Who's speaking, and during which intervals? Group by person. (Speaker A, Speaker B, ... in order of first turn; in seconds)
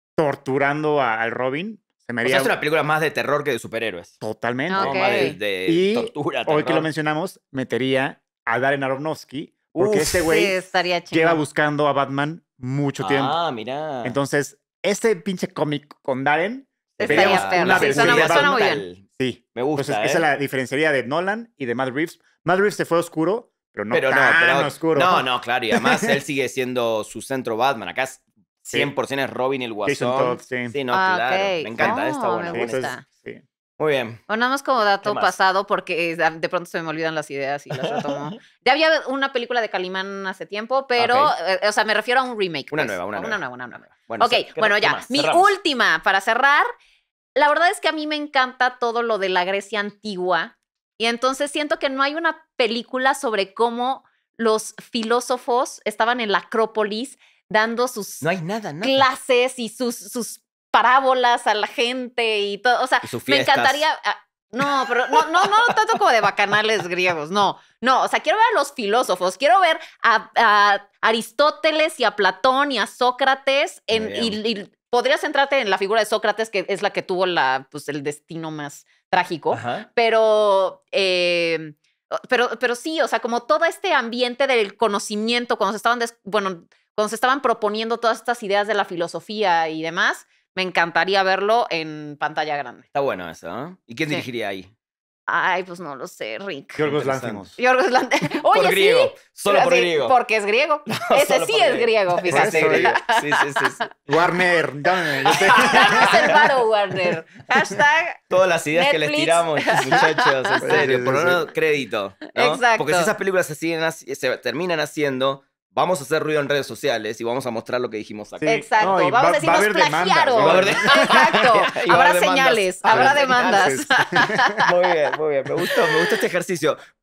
Speaker A: 0.2-2.5, 4.2-13.4, 14.0-18.5, 19.2-26.2, 29.9-30.8, 31.8-33.4, 96.8-97.6, 102.3-103.0, 104.1-106.4, 110.6-111.5, 118.4-121.5, 122.9-124.6
Speaker B: 2.2-4.2, 4.8-6.9, 9.8-10.3, 13.0-14.2, 17.0-19.0, 19.6-20.3, 23.9-32.9, 33.8-34.2, 35.0-35.3, 37.8-38.4, 41.0-41.3, 42.7-45.5, 58.2-59.0, 63.0-63.8, 64.6-65.8, 73.9-74.4, 79.5-79.9, 92.9-94.7, 96.8-97.5, 98.5-100.2, 100.9-103.9, 105.2-106.5, 108.3-118.5, 120.4-123.8, 124.6-126.8
Speaker C: 4.7-5.4, 10.1-11.4, 17.0-18.8, 30.9-33.0, 34.3-46.7, 47.4-58.3, 58.8-92.8, 95.3-96.9, 97.6-103.9, 105.5-108.2, 108.7-110.8, 112.3-113.1, 118.5-124.7, 125.6-126.2